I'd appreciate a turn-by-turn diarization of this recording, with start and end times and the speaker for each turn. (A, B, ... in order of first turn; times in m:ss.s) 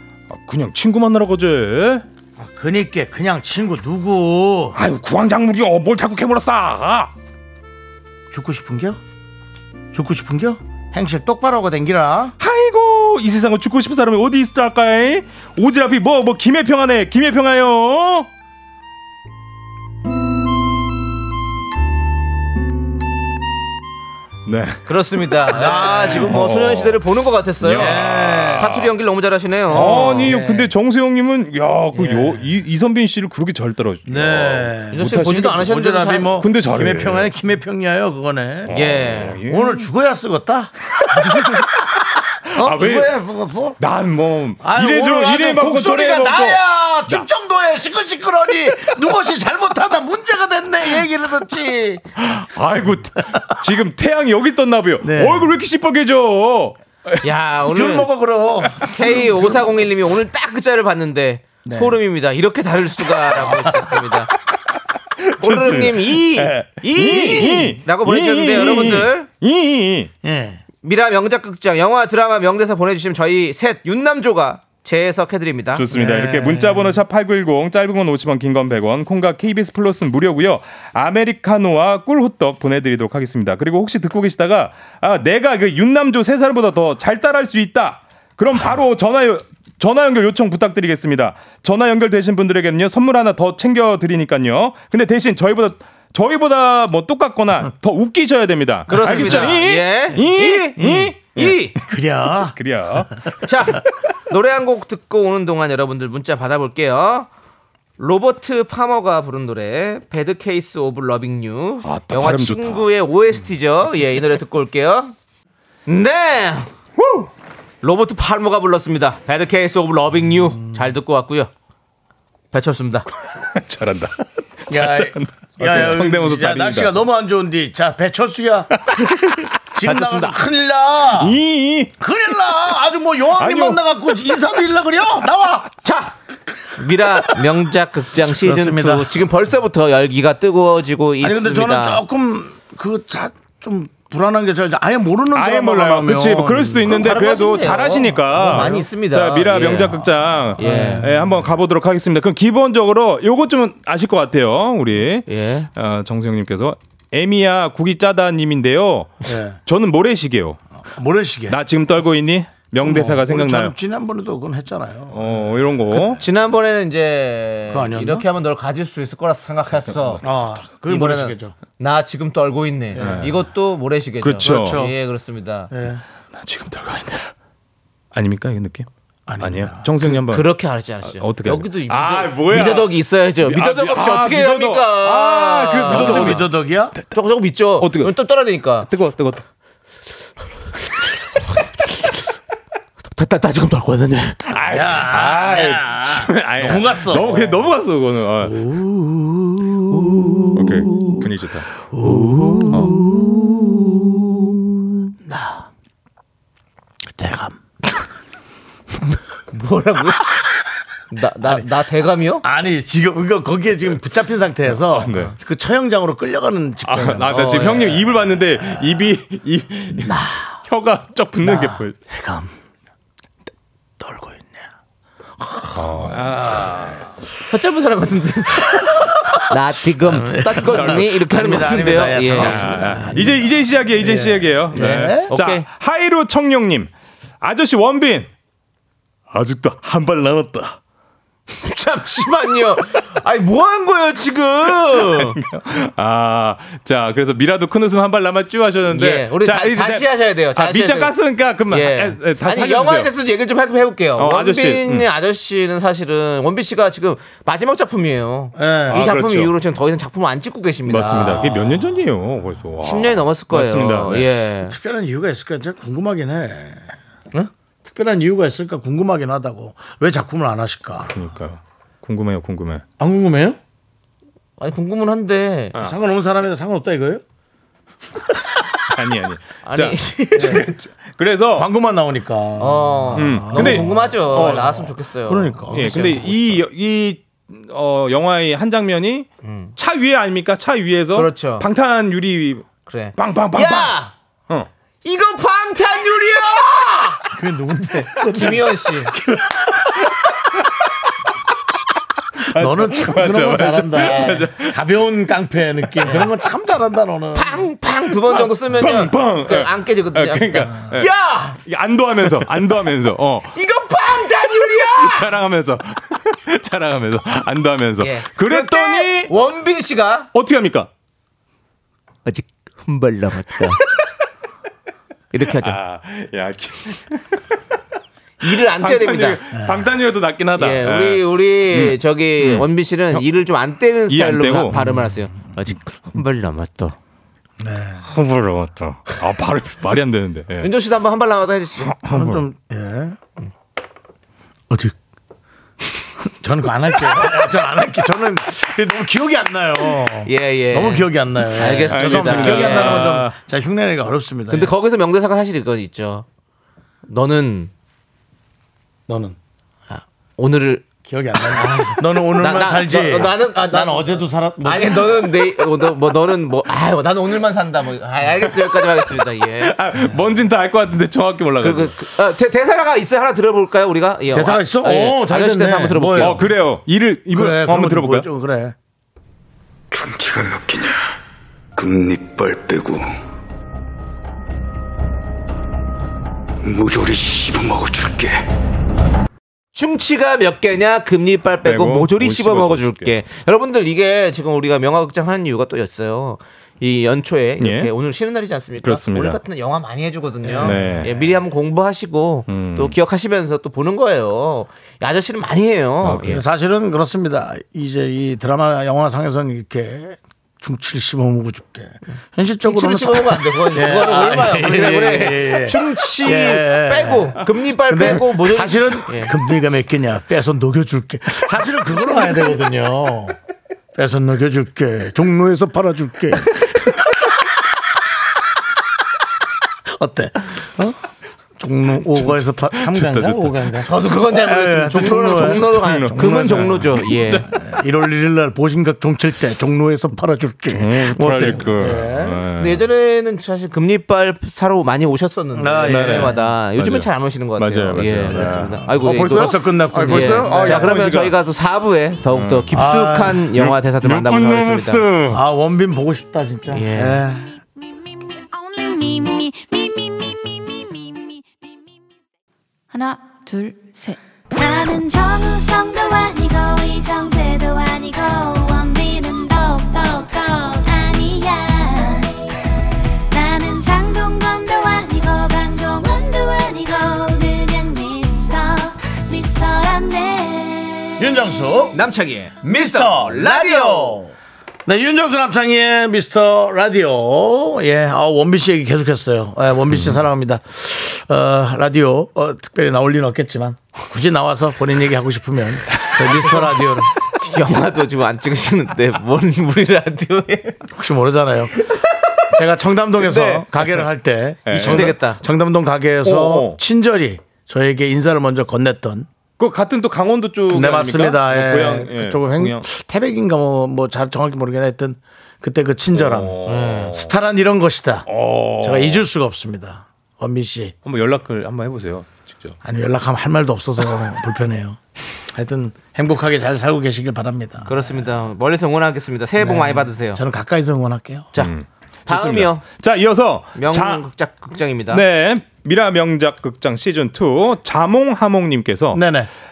0:00.3-0:02.0 A
0:02.4-0:04.8 B
0:04.7-0:07.1 A
0:08.3-0:09.0 B
0:09.9-0:12.4 B
0:12.4-0:18.3 A
0:24.4-0:24.9 A
0:24.8-0:30.4 C
0:25.5-0:26.4 B
0:26.0-0:27.0 A
0:27.6-0:28.8 A
0:27.7-0:28.8 B
0:29.7-0:35.5 A
0:29.8-0:30.7 B
0:31.9-0:32.5 B
0:34.0-0:38.8 B
0:34.9-0:36.4 C
0:36.4-0:37.3 A
0:38.6-0:39.8 A
0:38.7-0:39.4 C
0:39.4-0:41.7 B
0:41.0-0:41.7 A
0:42.4-0:43.1 A
0:42.5-0:43.8 B
0:43.8-0:47.2 A
0:44.6-0:52.0 B
0:52.2-0:57.2 A
0:55.0-0:55.5 B
0:57.2-0:58.1 C
0:57.7-0:59.6 B
0:58.8-1:04.3 C
1:01.6-1:02.0 B
1:05.2-1:10.1 A
1:05.4-1:09.3 C
1:07.0-1:07.7 B
1:10.2-1:10.6 B
1:10.8-1:15.8 C
1:15.7-1:41.8 A
1:15.9-1:17.0 B
1:38.9-1:41.8 C
1:38.9-1:39.5 B
1:40.8-1:41.1 B
1:41.8-1:42.6 B
1:42.5-1:43.3 A
1:43.4-1:47.3 C
1:48.0-1:55.1 C
1:51.8-1:52.8 A
1:55.8-1:56.7 C
1:57.0-1:57.3 A
1:57.8-2:01.5 C
2:00.6-2:00.9 B
2:02.5-2:03.1 C
2:03.4-2:06.9 A
2:04.7-2:09.1 B
2:08.9-2:10.4 A
2:09.7-2:11.4 B
2:11.1-2:11.9 A
2:12.0-2:15.7 B
2:13.4-2:13.8 A
2:15.8-2:16.2 C
2:16.8-2:22.0 C
2:18.2-2:19.1 B
2:21.2-2:27.1 B
2:25.3-2:40.6 A
2:26.8-2:31.1 C
2:28.4-2:28.8 B
2:29.6-2:31.5 B
2:35.2-2:35.7 C
2:39.2-2:39.6 B
2:40.8-2:41.6 B
2:41.5-2:43.7 A
2:42.8-2:45.6 B
2:45.1-2:46.2 A
2:46.0-2:50.2 C
2:47.7-2:48.2 B
2:49.7-2:50.3 A
2:50.2-2:51.5 B
2:50.9-2:55.7 C
2:52.9-2:53.3 B
2:52.9-2:53.4 A
2:54.2-2:54.9 A
2:54.4-2:54.9 B
2:55.7-2:56.0 B
2:56.3-2:57.3 A
2:58.1-2:58.9 A
2:59.3-3:00.2 B
2:59.4-3:00.5 A
3:00.2-3:06.5 C
3:01.0-3:06.5 A
3:05.8-3:06.9 B
3:07.1-3:08.9 C
3:07.8-3:08.1 A
3:08.8-3:09.4 A
3:13.2-3:14.5 C
3:14.5-3:18.6 A
3:14.7-3:17.7 B
3:18.4-3:21.2 B
3:20.5-3:21.7 A
3:21.9-3:24.6 B
3:22.7-3:23.0 A
3:25.2-3:25.7 B
3:27.2-3:27.6 B
3:29.5-3:30.2 C
3:31.1-3:32.4 C
3:32.4-3:37.8 B
3:34.7-3:35.3 A
3:36.8-3:42.0 A
3:37.3-3:38.1 C
3:39.9-3:40.6 B
3:41.4-3:42.5 B
3:44.0-3:44.7 B
3:45.4-3:46.7 B
3:45.7-3:47.1 A
3:47.4-3:53.2 C
3:50.0-3:55.3 B
3:50.6-3:51.1 A
3:52.3-3:56.9 A
3:54.7-3:55.7 C
3:57.4-3:58.3 A
3:59.3-4:00.8 A
4:01.6-4:05.4 C
4:05.2-4:13.1 A
4:08.9-4:11.2 C
4:11.7-4:21.6 C
4:14.2-4:15.1 A
4:18.6-4:19.0 B
4:18.9-4:19.5 A
4:20.8-4:24.3 A
4:22.8-4:24.8 C
4:24.6-4:26.9 B
4:27.8-4:31.2 B
4:31.1-4:32.8 A
4:33.0-4:33.6 B
4:34.6-4:35.8 C
4:35.8-4:37.2 B
4:38.9-4:41.7 A
4:39.6-4:40.8 C
4:40.4-4:40.7 B
4:41.6-4:46.6 B
4:42.6-4:46.3 C
4:43.2-4:44.9 A
4:45.7-4:54.7 A
4:49.4-4:49.7 C
4:51.1-4:51.7 C
4:52.8-4:54.1 C
4:55.0-4:57.2 C
4:57.3-4:59.8 B
4:58.2-4:59.1 C
5:02.4-5:04.8 A
5:02.5-5:07.7 B
5:04.0-5:04.4 C
5:06.0-5:06.3 C
5:07.3-5:11.6 C
5:08.2-5:13.5 A
5:13.5-5:15.3 C
5:15.0-5:19.3 A
5:18.0-5:20.3 C
5:20.3-5:20.9 A
5:22.2-5:23.8 C
5:25.3-5:25.8 C
5:25.5-5:27.4 A
5:28.4-5:29.4 C
5:28.4-5:33.2 A
5:29.5-5:29.9 B
5:30.6-5:37.0 C
5:34.1-5:34.8 A
5:34.8-5:35.1 B
5:37.6-5:38.0 B
5:38.0-5:40.7 A
5:40.6-5:42.0 C
5:41.9-5:42.4 A
5:42.0-5:43.2 B
5:44.7-5:44.9 B
5:46.2-5:54.7 B
5:50.2-5:53.2 C
5:51.9-5:53.3 A
5:54.5-5:56.2 C
5:57.1-5:57.7 C
5:59.1-5:59.4 B
5:59.9-6:00.9 C
6:01.0-6:05.3 B
6:01.5-6:09.7 C
6:09.6-6:11.9 A
6:11.6-6:16.4 C
6:14.3-6:16.5 B
6:16.2-6:18.3 A
6:17.3-6:18.7 B
6:19.9-6:21.0 D
6:21.8-6:23.1 D
6:26.6-6:28.4 D
6:29.7-6:46.4 C
6:31.6-6:33.1 A
6:37.6-6:37.9 A
6:38.8-6:39.4 A
6:40.4-6:41.0 B
6:40.6-6:41.2 A
6:42.5-6:43.0 A
6:46.0-7:03.4 B
6:52.6-6:59.3 C
7:03.9-7:07.2 B
7:09.9-7:11.0 B
7:11.6-7:22.4 B
7:12.2-7:13.7 A
7:13.8-7:17.4 C
7:15.1-7:17.5 A
7:20.7-7:22.8 A
7:22.6-7:35.1 C
7:25.5-7:26.4 B
7:25.8-7:31.4 A
7:28.3-7:31.0 B
7:32.3-7:32.7 A
7:32.7-7:33.5 B
7:33.5-7:35.4 A
7:35.3-7:37.6 B
7:36.7-7:37.2 C
7:38.5-7:41.2 E
7:42.9-7:52.2 E
7:53.3-8:00.9 E
8:01.2-8:02.0 B
8:01.9-8:04.2 C
8:02.6-8:04.3 B
8:04.8-8:17.1 B
8:16.2-8:20.8 C
8:20.9-8:21.7 B
8:22.5-8:29.3 B
8:23.2-8:23.7 C
8:24.6-8:25.2 A
8:24.7-8:25.4 C
8:26.2-8:26.8 A
8:29.6-8:32.8 A
8:30.7-8:40.9 B
8:36.1-8:37.3 A
8:36.6-8:37.2 C
8:38.3-8:39.2 A
8:41.0-8:42.8 A
8:42.8-8:45.0 B
8:45.5-8:48.0 B
8:47.8-8:50.4 C
8:49.6-8:51.5 B
8:51.6-8:54.2 A
8:52.3-8:52.8 C
8:53.7-8:55.2 C
8:55.1-8:59.2 A
8:59.1-8:59.5 B